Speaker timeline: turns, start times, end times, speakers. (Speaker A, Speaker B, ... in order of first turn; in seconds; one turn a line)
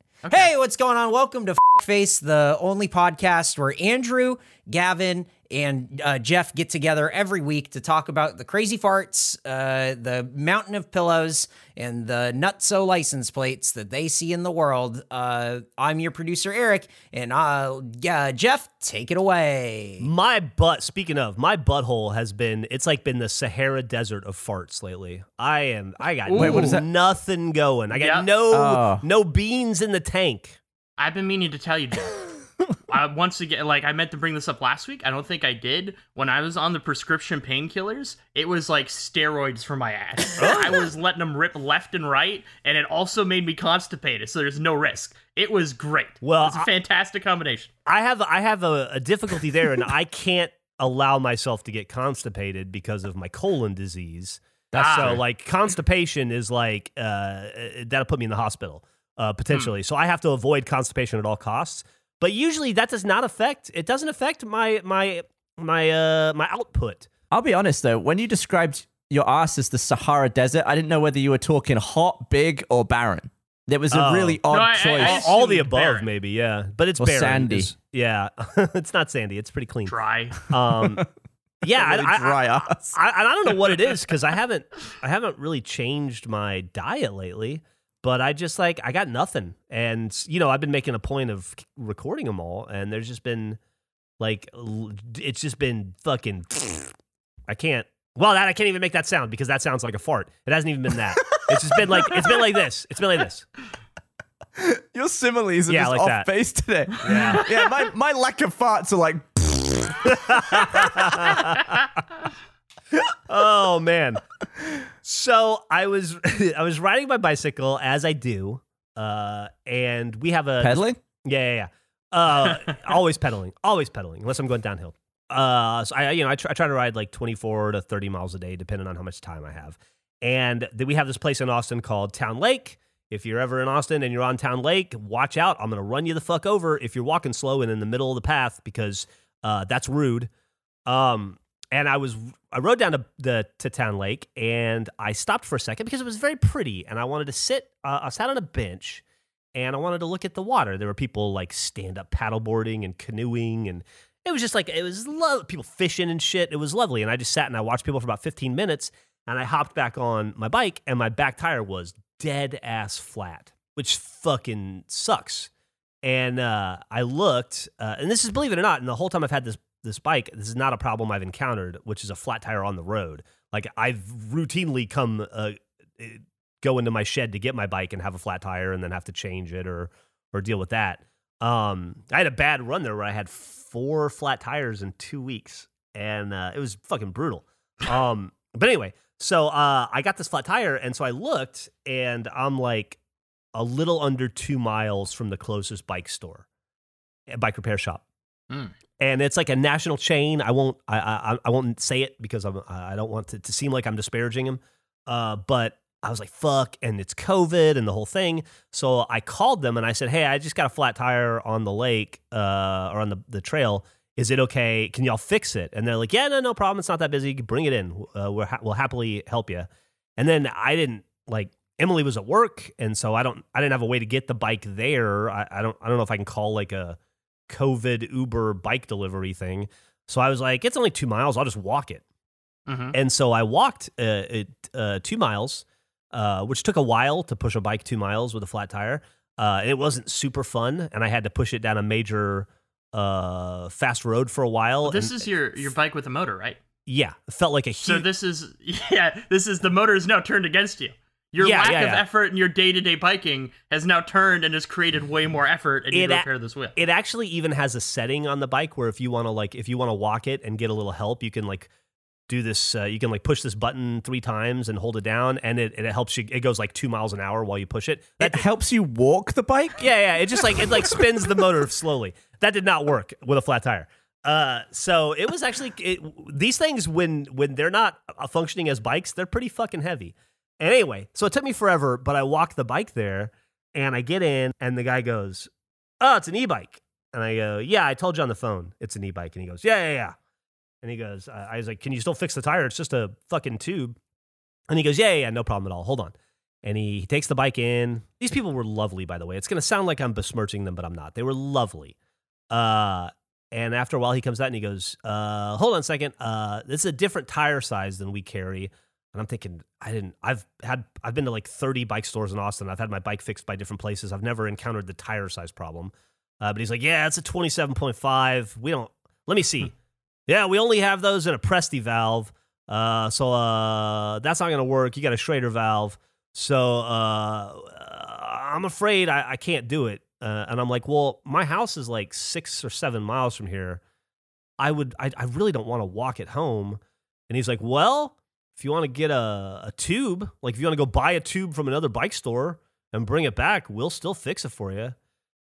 Speaker A: 0.2-0.5
Speaker B: 0.3-20.1
Speaker C: 20.0-30.6
Speaker A: 26.2-26.8
Speaker D: 26.3-26.8
Speaker A: 27.9-28.2
Speaker D: 28.5-29.0
Speaker A: 31.0-32.2
Speaker A: 32.9-47.7
Speaker C: 40.4-40.8
Speaker C: 46.2-46.7
Speaker C: 47.9-67.1
Speaker A: 54.7-55.2
Speaker D: 67.3-75.2
Speaker C: 73.9-74.4
Speaker A: 74.5-76.1
Speaker C: 74.9-80.0
Speaker D: 77.0-77.7
Speaker A: 79.8-80.4
Speaker C: 80.5-81.1
Speaker C: 81.6-93.6
Speaker D: 81.7-83.0
Speaker C: 94.2-96.9
Speaker C: 97.5-103.5
Speaker D: 104.6-111.1
Speaker C: 105.7-106.3
Speaker C: 107.0-107.5
Speaker C: 110.0-111.8
Speaker C: 113.3-114.2
Speaker C: 115.0-140.3
Speaker D: 120.6-121.0
Speaker C: 140.9-149.0
Speaker C: 149.5-165.5
Speaker C: 166.0-193.0
Speaker C: 193.5-196.4
Speaker C: 197.3-198.0
Speaker C: 199.0-227.0
Speaker C: 227.5-232.0
Speaker A: 232.7-232.9
Speaker C: 232.9-245.2
Speaker A: 244.8-246.6
Speaker C: 246.9-248.1
Speaker A: 247.8-256.7
Speaker C: 251.4-252.0
Speaker C: 255.9-261.7
Speaker C: 262.3-268.4
Speaker D: 268.2-269.9
Speaker C: 269.8-285.5
Speaker C: 286.0-290.1
Speaker C: 290.8-293.9
Speaker C: 294.7-301.9
Speaker C: 302.5-319.7
Speaker C: 320.3-333.8
Speaker C: 334.6-344.9